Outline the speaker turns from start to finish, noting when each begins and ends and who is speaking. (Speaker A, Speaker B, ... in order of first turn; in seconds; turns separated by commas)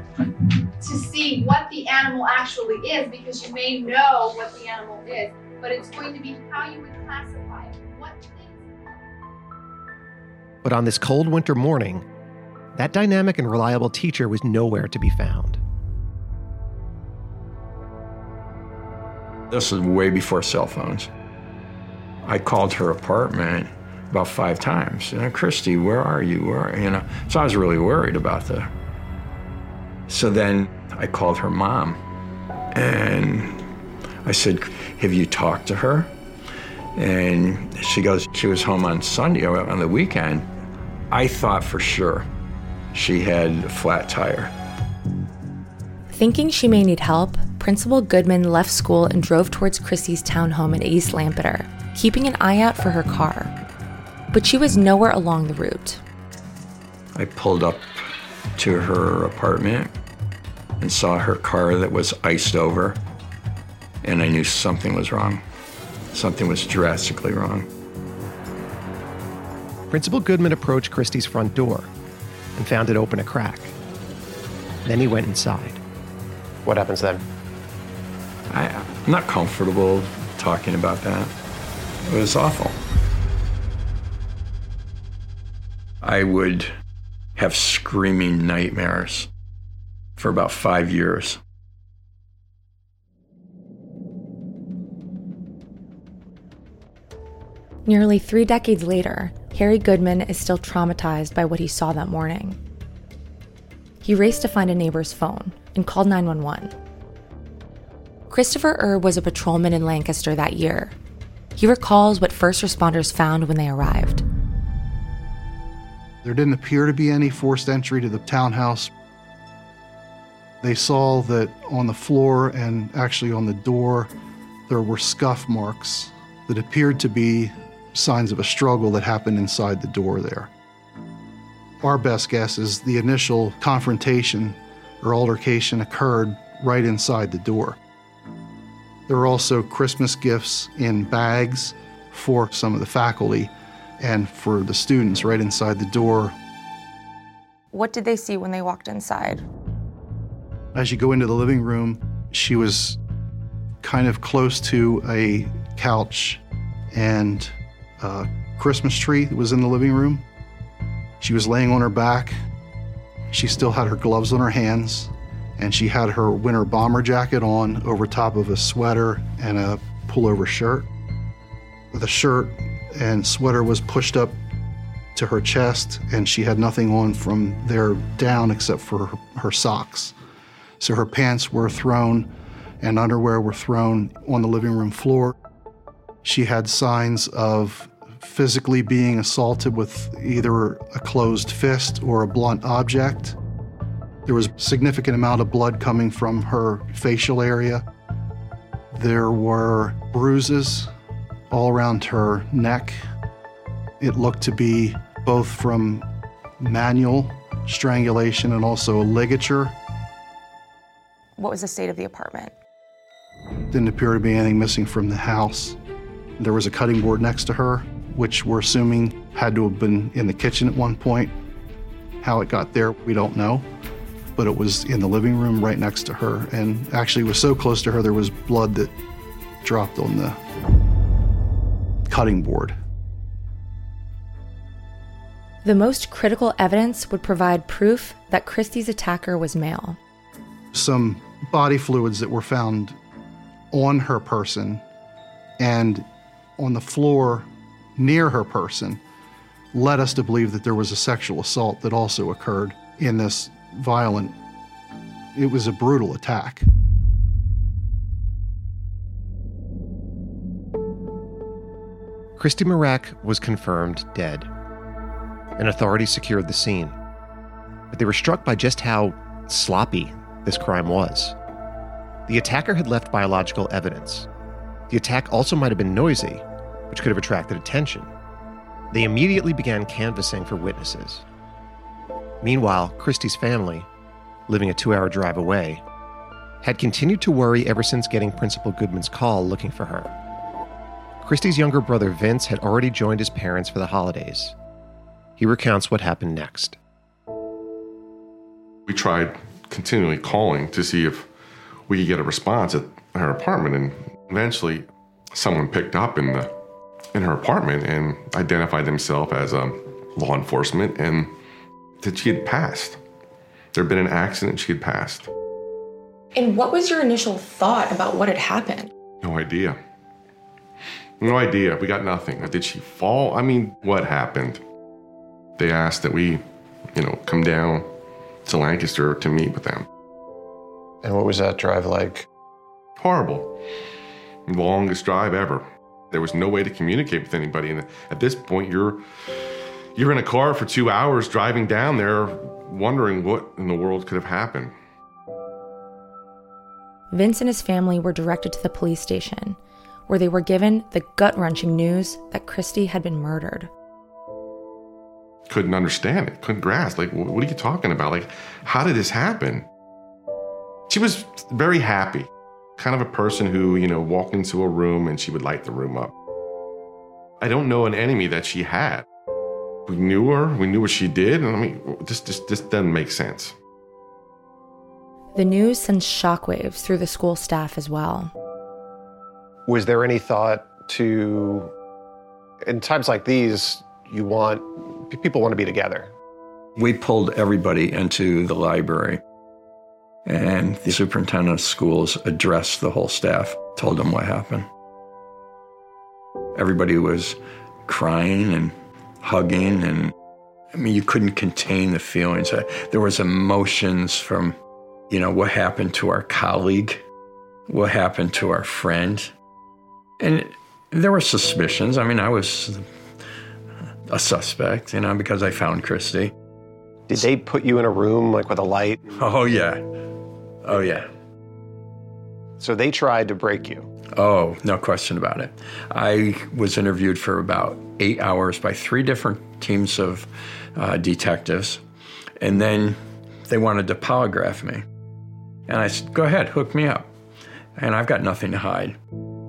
Speaker A: 0.8-8.6, Speaker B: 10.6-12.1, Speaker B: 12.7-15.6, Speaker C: 19.5-21.1, Speaker C: 22.2-28.7, Speaker C: 30.1-32.0, Speaker C: 32.7-33.6, Speaker C: 34.2-36.1, Speaker C: 37.0-40.5, Speaker C: 41.1-42.3, Speaker C: 42.9-44.5, Speaker D: 46.1-53.6, Speaker D: 54.3-56.0, Speaker C: 57.1-58.0, Speaker C: 58.6-59.9, Speaker C: 60.8-63.0, Speaker C: 64.0-65.4, Speaker C: 66.1-67.7, Speaker B: 69.9-71.9, Speaker B: 72.5-73.7, Speaker B: 74.8-75.8, Speaker E: 76.6-77.2, Speaker C: 78.5-81.3, Speaker C: 82.0-82.8, Speaker C: 86.0-86.7, Speaker C: 87.3-89.3, Speaker C: 90.2-91.4, Speaker D: 97.8-102.6, Speaker D: 104.0-106.7, Speaker D: 108.3-111.0, Speaker D: 111.6-114.2, Speaker F: 116.2-118.9, Speaker F: 120.6-124.1, Speaker F: 124.7-130.5, Speaker F: 131.8-137.8, Speaker F: 139.1-146.3, Speaker D: 147.7-149.4, Speaker F: 150.7-153.0, Speaker F: 153.8-160.2, Speaker F: 161.2-162.4, Speaker F: 163.3-170.9, Speaker F: 171.9-174.3, Speaker F: 175.1-180.2, Speaker F: 180.8-185.3, Speaker F: 186.2-193.3, Speaker F: 194.2-197.8, Speaker F: 198.9-200.9, Speaker F: 201.5-203.0, Speaker F: 204.0-206.1, Speaker F: 206.6-209.8, Speaker D: 211.4-212.5, Speaker F: 213.7-215.8, Speaker F: 216.4-221.3, Speaker F: 222.2-223.7, Speaker F: 224.3-228.9, Speaker F: 229.6-230.4, Speaker F: 232.1-232.8, Speaker D: 235.6-240.0, Speaker F: 240.7-243.0, Speaker F: 243.7-244.8, Speaker F: 245.6-246.1, Speaker F: 246.6-249.0, Speaker F: 249.7-254.3, Speaker F: 255.3-256.6, Speaker B: 262.4-264.5, Speaker B: 265.6-266.9, Speaker B: 267.9-271.4, Speaker B: 272.3-274.3, Speaker B: 274.9-278.1, Speaker B: 278.9-281.2, Speaker B: 282.4-283.9, Speaker B: 284.5-285.8, Speaker B: 286.6-290.1, Speaker B: 291.2-294.5, Speaker B: 295.4-296.8, Speaker G: 298.9-301.3, Speaker G: 301.9-306.5, Speaker G: 307.1-311.3, Speaker G: 312.0-313.0, Speaker G: 313.7-315.3, Speaker D: 316.4-318.9, Speaker G: 319.2-319.8, Speaker G: 321.2-324.6, Speaker G: 325.6-326.4, Speaker G: 326.9-327.9, Speaker G: 328.4-329.9, Speaker E: 331.0-332.3, Speaker G: 333.0-333.5, Speaker G: 334.4-339.0, Speaker G: 339.9-344.7, Speaker D: 347.1-353.7, Speaker G: 355.5-359.6, Speaker G: 360.9-366.1, Speaker G: 367.4-369.0, Speaker G: 369.9-373.5, Speaker D: 375.3-378.3, Speaker E: 379.7-381.7, Speaker E: 382.6-386.1, Speaker C: 386.8-389.2, Speaker C: 390.2-394.7, Speaker C: 396.5-400.1, Speaker C: 400.7-404.6, Speaker C: 405.1-407.0, Speaker C: 407.7-409.3, Speaker C: 410.2-412.9, Speaker C: 414.1-416.3, Speaker E: 417.1-419.2, Speaker C: 419.1-419.8, Speaker C: 420.6-421.1, Speaker E: 422.6-423.9, Speaker C: 424.1-431.8, Speaker C: 432.4-434.8, Speaker C: 435.7-437.1, Speaker C: 437.8-438.9